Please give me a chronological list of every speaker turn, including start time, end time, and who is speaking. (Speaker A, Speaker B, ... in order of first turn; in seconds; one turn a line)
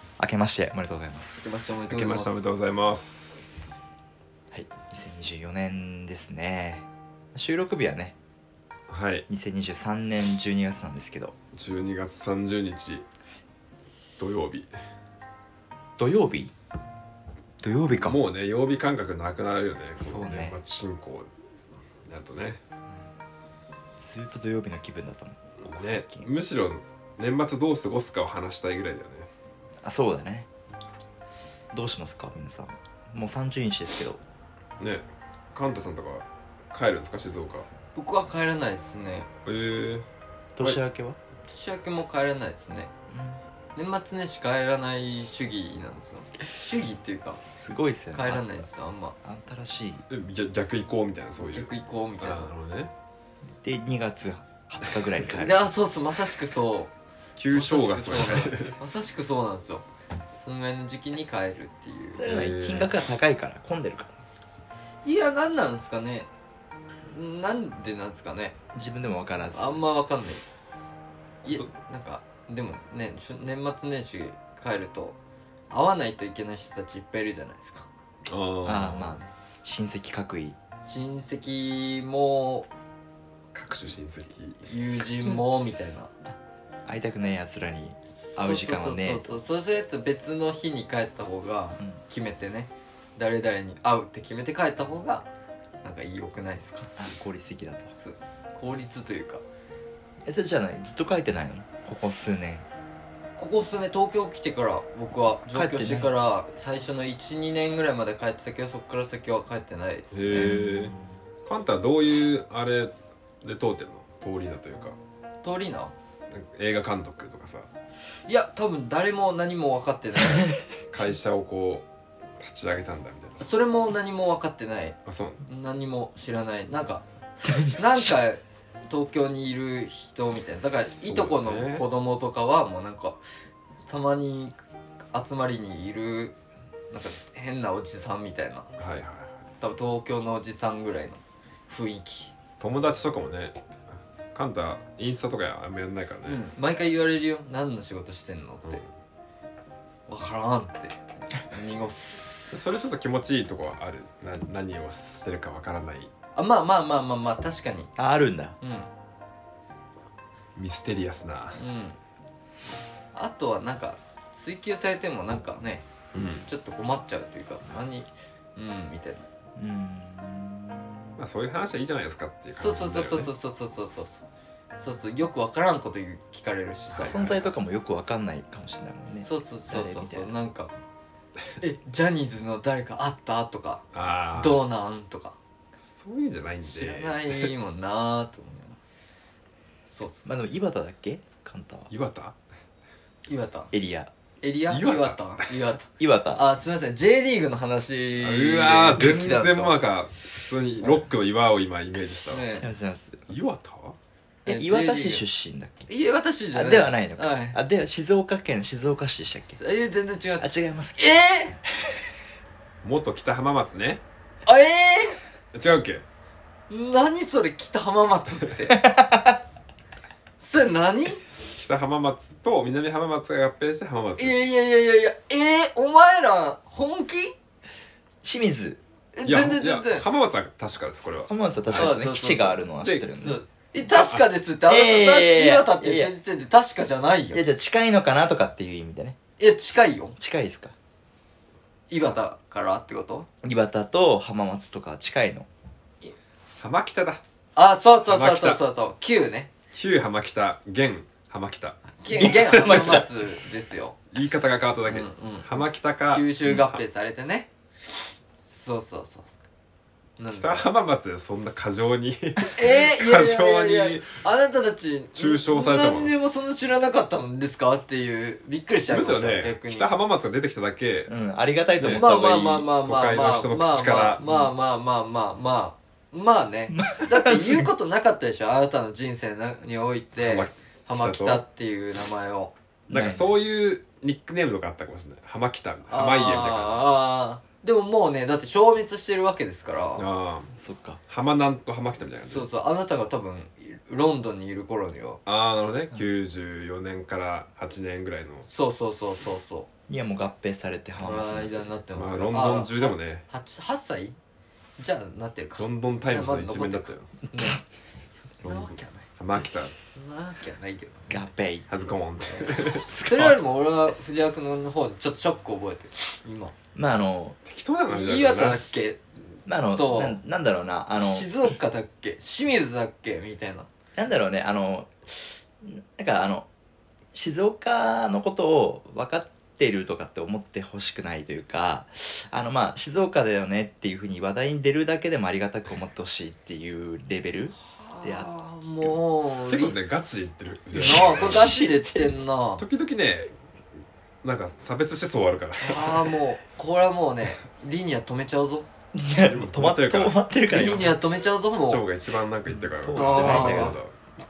Speaker A: 0.2-1.7
Speaker B: 1.4-2.5
Speaker C: 1.8-3.7
Speaker A: 4.5-8.2
Speaker C: 8.9-9.2
Speaker A: 9.3-11.3
Speaker C: 11.5-13.0
Speaker C: 14.2-14.7
Speaker A: 16.0-16.5
Speaker A: 17.6-18.2
Speaker C: 17.9-21.3
Speaker A: 20.0-20.6
Speaker C: 22.0-22.6
Speaker A: 24.0-26.3
Speaker C: 25.6-29.3
Speaker A: 29.8-30.5
Speaker A: 31.7-34.2
Speaker C: 34.8-37.7
Speaker B: 37.9-39.3
Speaker C: 39.4-40.0
Speaker A: 40.5-41.2
Speaker B: 41.5-42.9
Speaker A: 43.1-43.4
Speaker B: 43.7-47.4
Speaker A: 47.4-48.7
Speaker B: 48.1-49.1
Speaker A: 49.2-50.0
Speaker C: 50.1-52.9
Speaker B: 51.4-52.5
Speaker A: 53.6-55.7
Speaker B: 55.3-56.9
Speaker C: 57.4-58.8
Speaker B: 57.5-59.9
Speaker B: 60.4-62.3
Speaker A: 62.1-64.1
Speaker C: 62.2-63.0
Speaker B: 65.0-66.3
Speaker B: 67.0-68.6
Speaker A: 68.7-69.8
Speaker B: 69.5-70.9
Speaker C: 71.4-71.7
Speaker B: 71.4-75.2
Speaker B: 75.7-77.9
Speaker C: 78.2-79.2
Speaker A: 78.6-80.6
Speaker B: 80.9-82.7
Speaker C: 83.5-84.7
Speaker B: 84.7-86.1
Speaker A: 86.3-89.4
Speaker B: 88.2-95.3
Speaker B: 95.8-96.9
Speaker A: 97.0-97.9
Speaker B: 97.9-99.4
Speaker A: 100.2-102.7
Speaker B: 103.4-110.6
Speaker A: 105.5-106.1
Speaker C: 110.1-115.0
Speaker A: 110.3-111.1
Speaker B: 115.4-115.9
Speaker C: 116.3-117.7
Speaker B: 118.2-120.5
Speaker C: 120.9-121.8
Speaker C: 122.4-123.5
Speaker B: 123.4-133.2
Speaker C: 125.0-125.4
Speaker A: 127.4-128.1
Speaker C: 130.7-131.8
Speaker B: 133.9-134.6
Speaker B: 135.1-136.3
Speaker B: 136.9-138.7
Speaker C: 138.8-139.4
Speaker B: 139.6-142.3
Speaker C: 142.6-146.4
Speaker B: 146.2-148.8
Speaker B: 150.1-152.6
Speaker C: 152.5-156.1
Speaker B: 156.3-157.9
Speaker A: 158.0-158.6
Speaker B: 158.6-158.9
Speaker C: 160.5-161.6
Speaker B: 161.6-162.0
Speaker B: 163.1-165.9
Speaker C: 166.1-166.5
Speaker B: 166.4-169.3
Speaker A: 169.6-171.2
Speaker C: 171.2-173.3
Speaker B: 172.5-174.2
Speaker B: 174.8-177.3
Speaker C: 176.9-177.5
Speaker A: 177.0-180.4
Speaker B: 179.1-180.7
Speaker B: 181.6-185.4
Speaker C: 183.9-184.6
Speaker C: 185.8-187.5
Speaker B: 186.6-188.8
Speaker B: 189.8-190.2
Speaker A: 190.2-191.9
Speaker C: 191.9-192.3
Speaker B: 193.3-193.7
Speaker A: 193.7-194.1
Speaker B: 194.4-199.8
Speaker C: 194.7-195.7
Speaker A: 196.0-196.4
Speaker C: 198.2-202.4
Speaker B: 202.3-202.7
Speaker A: 202.5-203.3
Speaker C: 203.3-204.0
Speaker B: 204.4-205.2
Speaker A: 204.4-205.9
Speaker B: 205.9-207.6
Speaker A: 206.5-209.6
Speaker B: 209.5-211.6
Speaker A: 210.4-211.0
Speaker A: 211.8-212.0
Speaker C: 212.8-214.0
Speaker B: 214.4-215.2
Speaker C: 215.5-216.0
Speaker B: 216.7-218.8
Speaker A: 218.7-219.4
Speaker B: 220.4-221.2
Speaker C: 221.5-224.4
Speaker B: 224.2-227.3
Speaker A: 228.2-228.8
Speaker B: 229.1-230.1
Speaker C: 229.2-231.9
Speaker A: 231.3-233.4
Speaker B: 231.7-232.6
Speaker B: 233.2-237.4
Speaker C: 233.9-234.2
Speaker A: 234.7-236.1
Speaker A: 237.3-239.2
Speaker B: 239.4-240.2
Speaker A: 240.2-240.7
Speaker B: 241.9-243.3
Speaker A: 243.4-245.5
Speaker C: 246.6-247.2
Speaker B: 247.6-249.5
Speaker C: 248.1-248.6
Speaker C: 249.7-253.0
Speaker B: 252.0-254.0
Speaker A: 252.1-253.1
Speaker C: 254.1-256.8
Speaker B: 254.9-257.5
Speaker B: 258.4-259.3
Speaker B: 260.2-260.7
Speaker C: 260.3-264.2
Speaker B: 262.4-269.9
Speaker C: 265.1-266.1
Speaker C: 268.9-271.1
Speaker A: 271.1-272.6
Speaker C: 271.8-274.2
Speaker B: 271.8-282.5
Speaker A: 274.2-274.5
Speaker A: 276.7-277.7
Speaker C: 280.1-281.4
Speaker C: 282.9-286.8
Speaker A: 282.9-283.3
Speaker B: 285.9-290.1
Speaker C: 289.9-290.5
Speaker A: 290.5-291.0
Speaker C: 291.1-292.5
Speaker B: 292.2-295.2
Speaker C: 295.2-298.5
Speaker B: 298.5-299.7
Speaker A: 299.9-301.7
Speaker B: 301.0-304.2
Speaker C: 301.9-303.2
Speaker B: 304.8-307.6
Speaker C: 305.6-307.1
Speaker B: 308.4-309.1
Speaker C: 308.4-309.7
Speaker B: 309.9-311.3
Speaker A: 311.1-311.7
Speaker C: 311.7-312.9
Speaker B: 312.2-316.5
Speaker A: 312.9-313.4
Speaker A: 316.7-317.4
Speaker C: 317.4-318.6
Speaker B: 317.9-319.0
Speaker A: 319.4-321.3
Speaker B: 319.7-320.2
Speaker B: 321.0-323.7
Speaker A: 323.9-326.5
Speaker A: 327.1-338.3
Speaker B: 337.5-339.8
Speaker C: 339.4-341.6
Speaker B: 340.7-342.6
Speaker A: 340.8-342.1
Speaker C: 342.6-343.3
Speaker C: 344.2-346.1
Speaker B: 345.6-348.7
Speaker A: 348.9-350.9
Speaker C: 349.1-350.9
Speaker B: 350.5-351.8
Speaker C: 351.5-353.9
Speaker A: 352.5-353.8
Speaker B: 352.9-353.8